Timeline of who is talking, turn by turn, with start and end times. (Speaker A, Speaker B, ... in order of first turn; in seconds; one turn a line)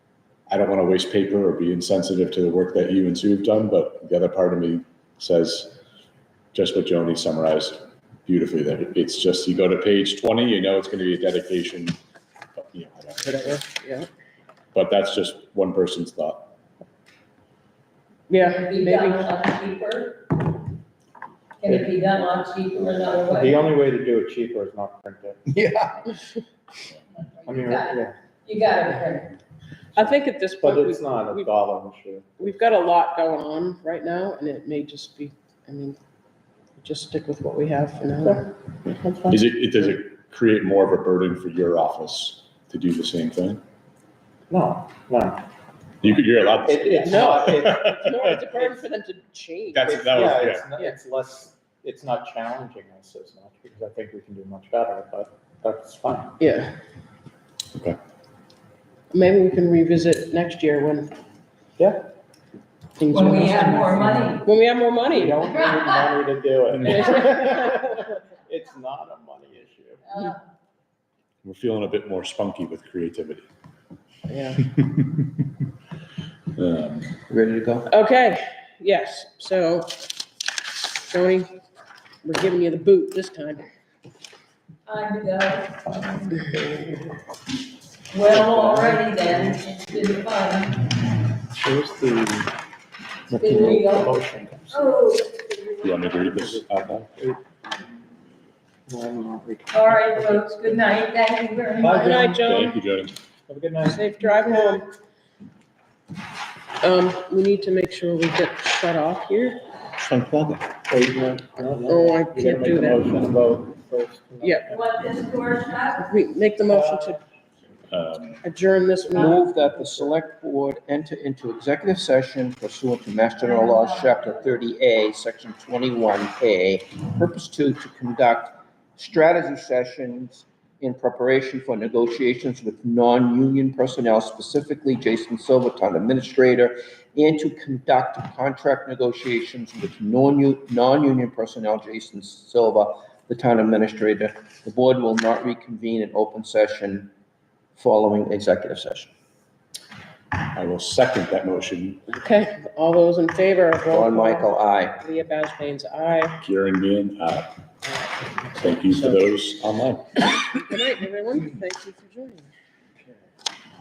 Speaker A: 0.5-5.8
Speaker A: 6.5-12.0
Speaker A: 12.6-13.6
Speaker B: 13.3-14.1
Speaker A: 14.7-16.5
Speaker B: 18.3-19.4
Speaker C: 18.5-20.5
Speaker C: 21.6-23.6
Speaker D: 23.2-25.5
Speaker E: 25.5-26.0
Speaker C: 27.4-29.4
Speaker D: 27.4-28.1
Speaker B: 29.9-31.6
Speaker D: 30.6-32.4
Speaker B: 32.4-36.0
Speaker B: 36.8-38.5
Speaker A: 39.3-43.6
Speaker D: 44.5-45.5
Speaker A: 46.0-48.5
Speaker D: 46.6-47.9
Speaker B: 47.0-51.0
Speaker A: 49.7-50.7
Speaker D: 49.9-56.4
Speaker B: 56.4-56.8
Speaker B: 59.1-61.1
Speaker D: 61.8-62.1
Speaker B: 63.0-65.4
Speaker C: 63.1-64.5
Speaker D: 65.1-70.2
Speaker B: 66.8-68.0
Speaker A: 71.4-73.5
Speaker B: 74.3-74.7
Speaker A: 76.5-77.2
Speaker E: 77.3-77.9
Speaker B: 77.9-79.9
Speaker B: 81.1-81.5
Speaker B: 82.2-83.7
Speaker C: 84.9-86.2
Speaker B: 86.5-86.8
Speaker C: 88.1-90.9
Speaker D: 88.3-89.6
Speaker D: 91.6-92.5
Speaker D: 93.3-94.9
Speaker C: 93.3-94.2
Speaker C: 94.7-96.3
Speaker A: 95.8-97.1
Speaker D: 96.4-96.6
Speaker D: 98.9-100.7
Speaker C: 99.7-102.4
Speaker D: 101.8-102.4
Speaker B: 101.9-102.8
Speaker A: 102.4-103.1
Speaker D: 103.5-104.3
Speaker B: 103.8-104.9
Speaker B: 106.8-109.6
Speaker A: 110.0-110.6
Speaker D: 110.9-115.0
Speaker B: 111.8-113.0
Speaker B: 114.4-114.7
Speaker C: 114.7-116.1
Speaker B: 115.9-117.2
Speaker D: 116.7-117.2
Speaker A: 117.9-118.4
Speaker B: 118.4-120.1
Speaker C: 119.1-119.4
Speaker E: 119.1-147.1
Speaker C: 123.4-124.4
Speaker E: 147.8-149.1
Speaker A: 150.5-152.1
Speaker B: 152.1-156.4
Speaker E: 153.9-155.0
Speaker A: 156.4-157.6
Speaker A: 158.5-160.1
Speaker B: 160.5-162.5